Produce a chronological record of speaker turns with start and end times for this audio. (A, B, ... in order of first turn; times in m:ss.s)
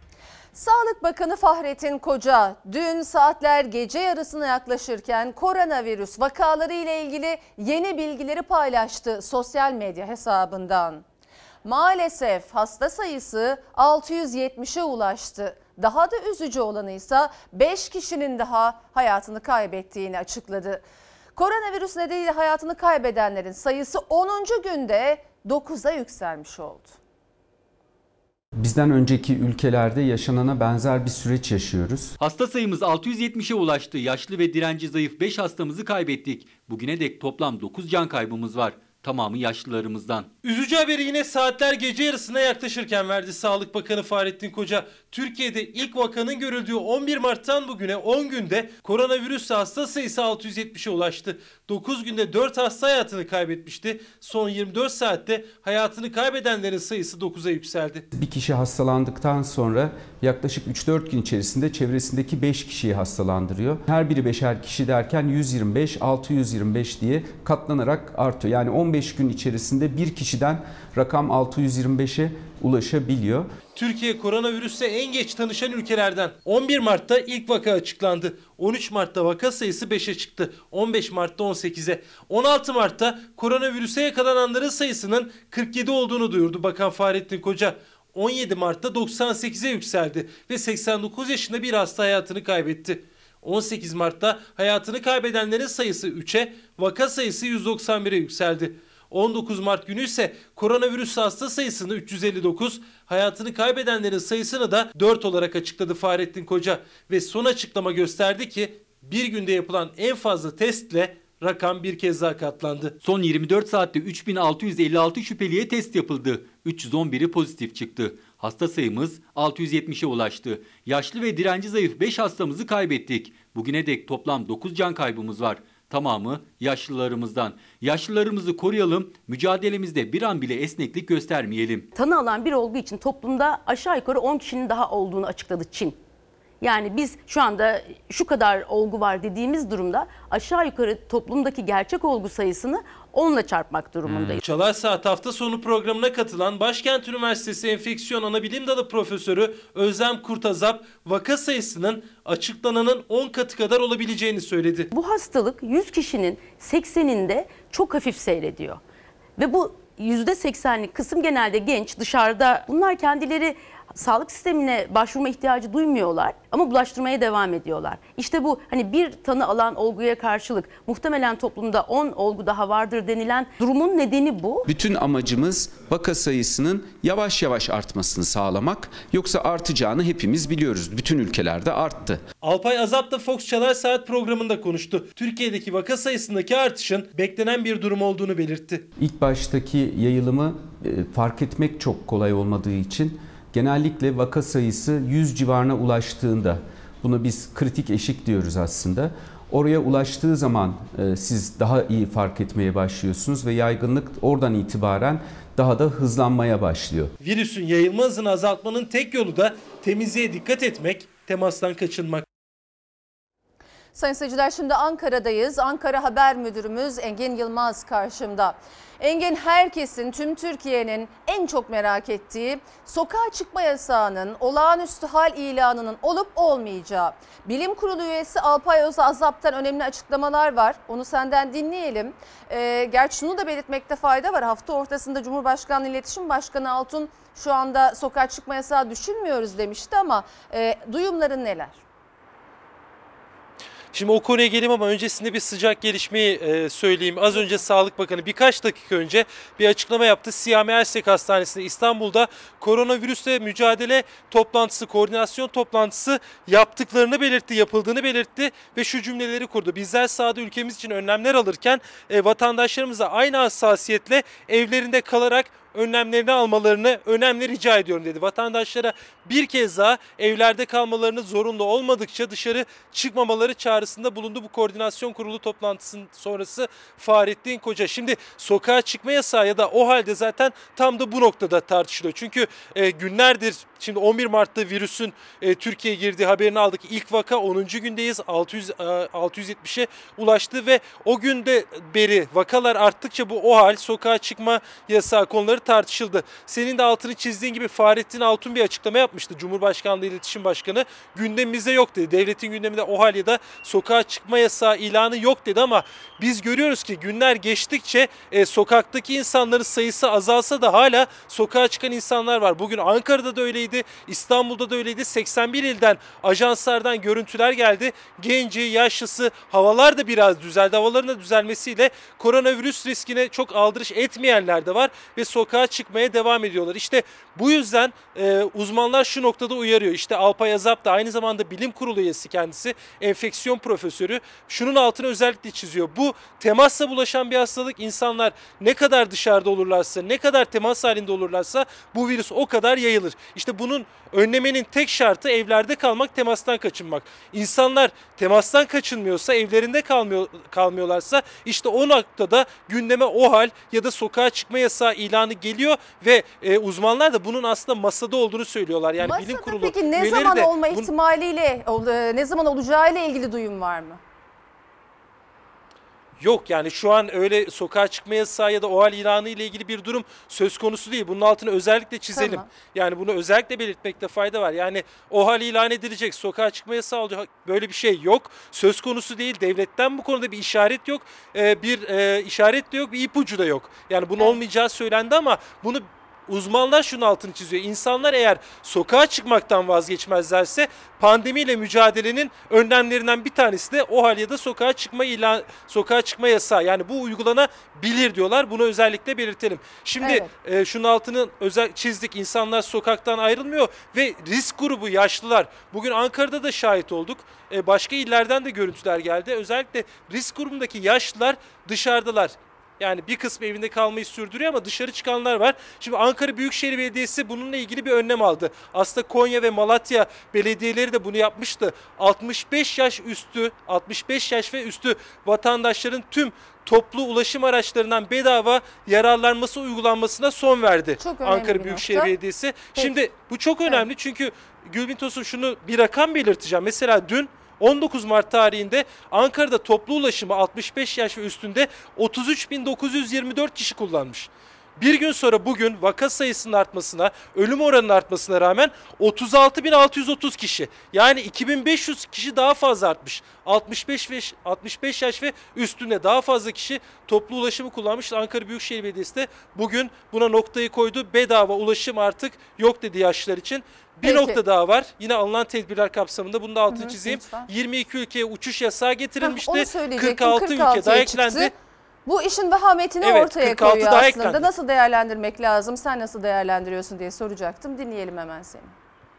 0:00.5-0:11.0 A
0:11.6-0:20.8 A
0:21.4-0:27.0 A
0:28.6-0:32.1 B
0:32.2-0:40.3 C
0:40.4-0:58.0 D
0:58.1-1:13.5 B
1:13.8-1:52.9 D
1:53.0-2:11.9 C
2:11.9-2:16.0 E
2:16.6-2:24.4 E
2:24.4-2:34.9 D
2:34.9-2:38.8 E
2:39.4-2:54.7 E
2:54.7-3:02.2 B
3:02.4-3:08.8 D
3:09.0-3:27.1 B
3:27.2-3:32.2 D
3:33.9-4:01.8 A
4:03.9-6:00.9 D
5:59.0-6:04.0 A
6:06.2-7:51.5 D
6:12.1-6:12.4 A
6:40.0-6:40.3 A
7:11.0-7:12.1 A
7:44.0-7:44.4 A
7:46.7-7:47.5 A
7:49.2-7:51.5 A
7:52.0-7:58.7 A
7:53.0-7:54.4 D